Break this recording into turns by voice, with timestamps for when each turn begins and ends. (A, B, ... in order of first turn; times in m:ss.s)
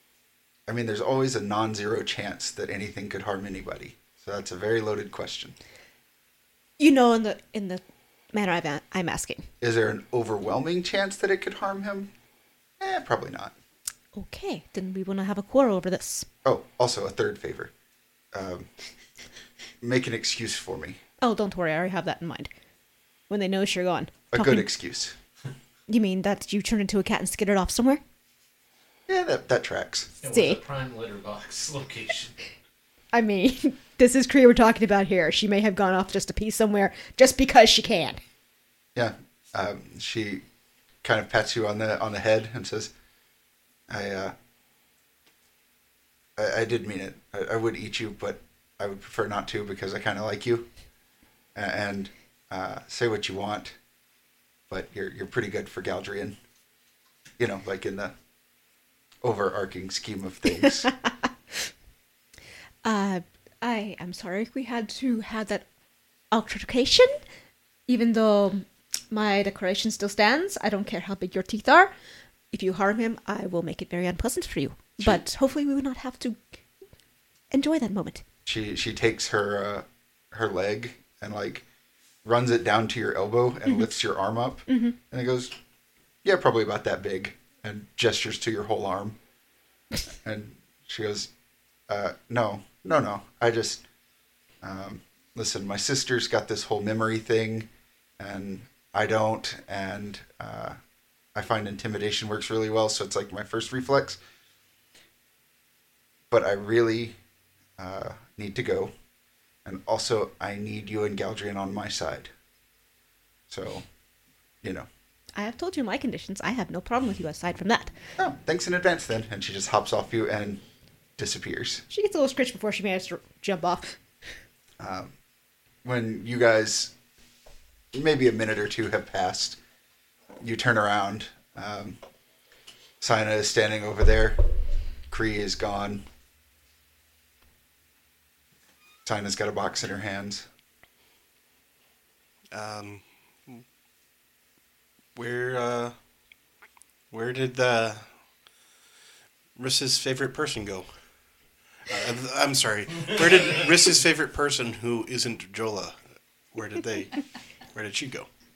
0:00.7-0:05.6 A
0:06.8-0:07.8 B
0:08.3-0:09.5 B
0:09.6-0:12.1 A
0:12.8-0:13.5 A
0:14.1-0:16.3 B
0:16.4-0:17.7 A
0:18.3-0:18.7 A
0:19.8-0:21.0 A
0:21.2-0:22.5 B
0:23.3-0:24.7 B
0:24.3-0:25.2 A
0:25.9-0:28.0 B
0:29.1-0:30.1 A
0:30.2-0:32.3 C
0:30.3-0:30.6 B
0:33.1-0:38.2 B
0:39.0-0:40.4 A
0:41.0-0:42.9 A
0:43.9-0:44.3 A
0:46.4-0:50.7 A
0:51.6-0:53.8 A
0:54.7-0:56.4 A
0:57.4-0:58.1 A
0:59.2-1:00.9 A
1:02.8-1:05.6 B
1:06.3-1:07.2 B
1:07.9-1:11.9 B
1:12.5-1:16.4 B
1:17.5-1:18.2 B
1:18.5-1:21.6 A
1:22.2-1:25.5 A
1:24.7-1:25.0 B
1:26.2-1:29.2 A
1:30.2-1:31.3 A
1:31.9-1:33.8 A
1:34.6-1:37.7 A
1:38.2-1:40.8 A
1:41.4-1:44.2 A
1:46.3-1:47.2 A
1:47.8-1:48.9 A
1:49.6-1:52.3 A
1:53.5-1:53.8 A
1:55.4-1:57.9 B
1:58.2-2:00.6 A
2:01.2-2:01.8 A
2:01.9-2:04.0 B
2:04.8-2:05.1 A
2:05.8-2:06.9 A
2:07.9-2:09.6 A
2:10.4-2:12.0 A
2:13.0-2:14.4 A
2:15.1-2:16.0 A
2:19.0-2:20.4 A
2:22.5-2:23.6 D
2:25.2-2:26.0 D
2:27.1-2:28.0 D
2:29.6-2:30.9 D
2:31.9-2:36.0 D
2:36.5-2:37.1 D
2:37.7-2:38.3 D